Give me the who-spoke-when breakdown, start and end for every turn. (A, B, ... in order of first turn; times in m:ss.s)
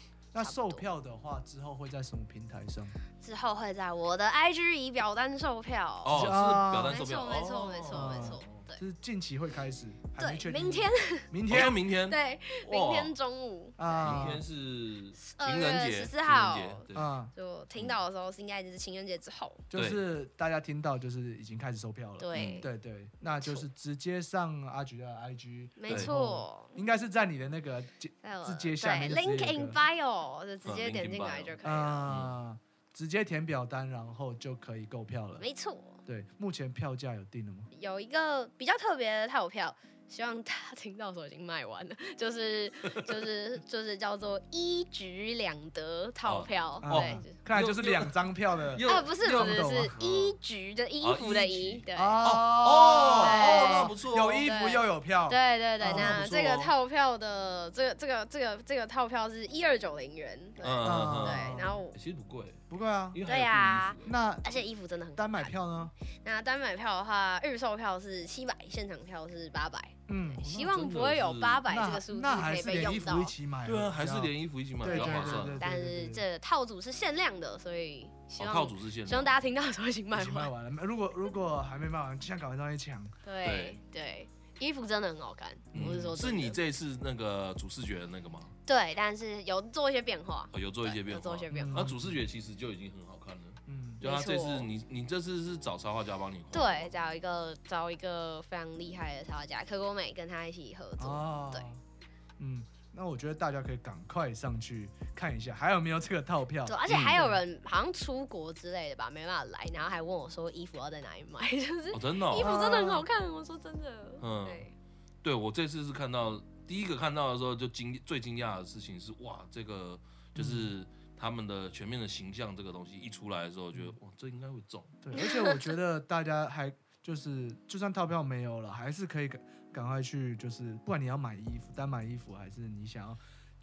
0:00.3-0:03.0 A
0:00.4-0:00.8 B
0:03.2-0:08.8 B
0:06.0-0:08.4 C
0:06.1-0:07.0 A
0:07.9-0:11.8 A
0:10.2-0:14.3 B
0:11.5-0:13.1 C
0:13.8-0:14.4 A
0:14.0-0:17.1 C
0:15.2-0:19.6 B
0:16.9-0:17.3 A
0:19.7-0:29.8 A
0:19.7-0:20.0 C
0:22.2-0:22.7 B
0:22.3-0:22.7 C
0:23.4-0:23.6 B
0:25.8-0:26.8 B
0:28.2-0:32.1 B
0:30.6-0:31.5 C
0:31.6-0:35.4 A
0:32.1-0:32.3 C
0:35.4-0:36.0 B
0:36.0-0:37.7 A
0:37.7-0:47.3 B
0:46.3-0:50.3 C
0:46.8-0:50.0 A
0:48.9-0:52.2 B
0:51.0-0:54.5 C
0:51.9-0:56.2 A
0:53.2-0:53.9 B
0:54.4-1:01.9 B
0:55.8-0:56.7 C
1:00.6-1:04.1 C
1:00.8-1:01.8 A
1:02.7-1:03.2 A
1:03.3-1:05.5 B
1:04.0-1:04.6 A
1:05.2-1:05.9 A
1:06.2-1:13.3 B
1:10.1-1:10.8 A
1:10.4-1:11.6 C
1:11.7-1:16.2 A
1:13.6-1:15.6 C
1:14.8-1:20.5 B
1:18.4-1:19.4 C
1:20.1-1:23.2 A
1:23.2-1:26.6 B
1:23.4-1:23.8 C
1:25.7-1:26.2 A
1:25.7-1:28.5 C
1:28.6-1:31.9 B
1:30.5-1:36.9 C
1:31.5-1:32.2 A
1:33.7-1:34.0 A
1:34.0-1:34.7 B
1:36.5-1:41.7 B
1:41.0-1:41.8 A
1:42.4-1:47.4 A
1:46.6-1:54.7 B
1:46.9-1:47.3 C
1:51.9-1:53.0 C
1:52.3-1:53.0 A
1:54.2-1:54.7 C
1:55.2-2:05.0 C
2:00.4-2:00.7 A
2:05.0-2:13.2 A
2:05.2-2:05.6 B